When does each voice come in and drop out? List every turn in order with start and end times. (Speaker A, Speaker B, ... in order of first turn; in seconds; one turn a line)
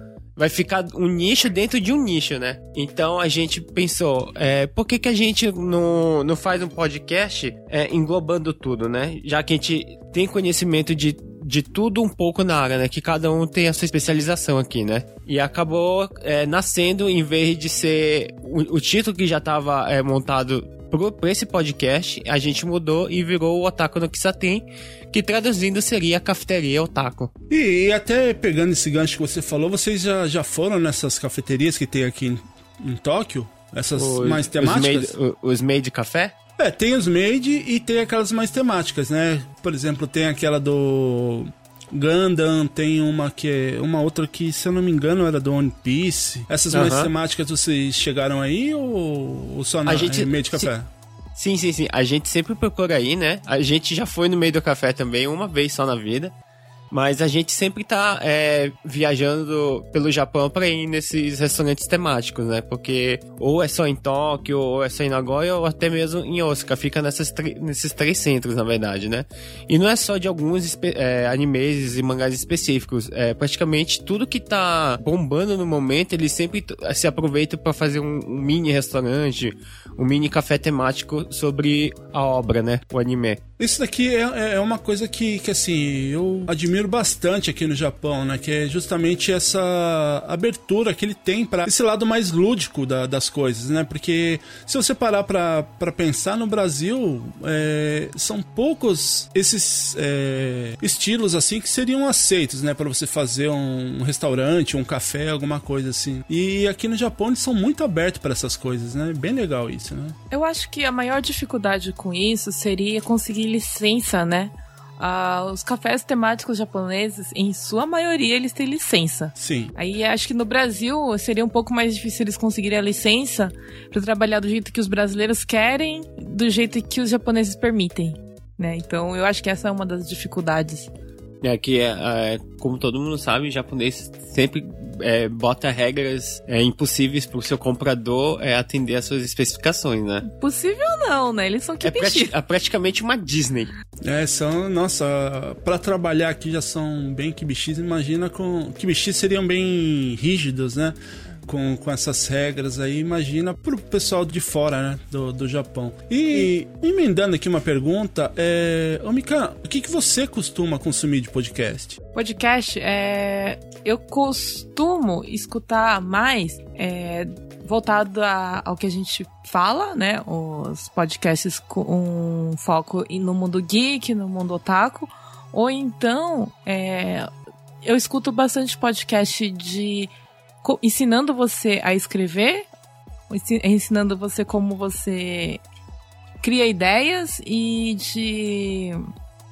Speaker A: 0.4-27.3
Speaker B: 27.5-35.1
Speaker A: 34.0-36.4
Speaker B: 36.6-50.9
Speaker A: 46.7-47.1
Speaker A: 49.9-50.7
Speaker A: 51.4-56.3
Speaker A: 56.9-83.4
Speaker B: 83.6-110.2
Speaker C: 110.3-130.9
Speaker B: 119.4-119.7
Speaker A: 131.4-140.3
Speaker C: 140.3-142.3
Speaker A: 141.8-143.7
Speaker B: 144.0-162.0
Speaker C: 162.1-177.3
Speaker C: 177.8-180.1
Speaker C: 180.6-182.7
Speaker C: 183.3-185.6
Speaker C: 186.4-189.0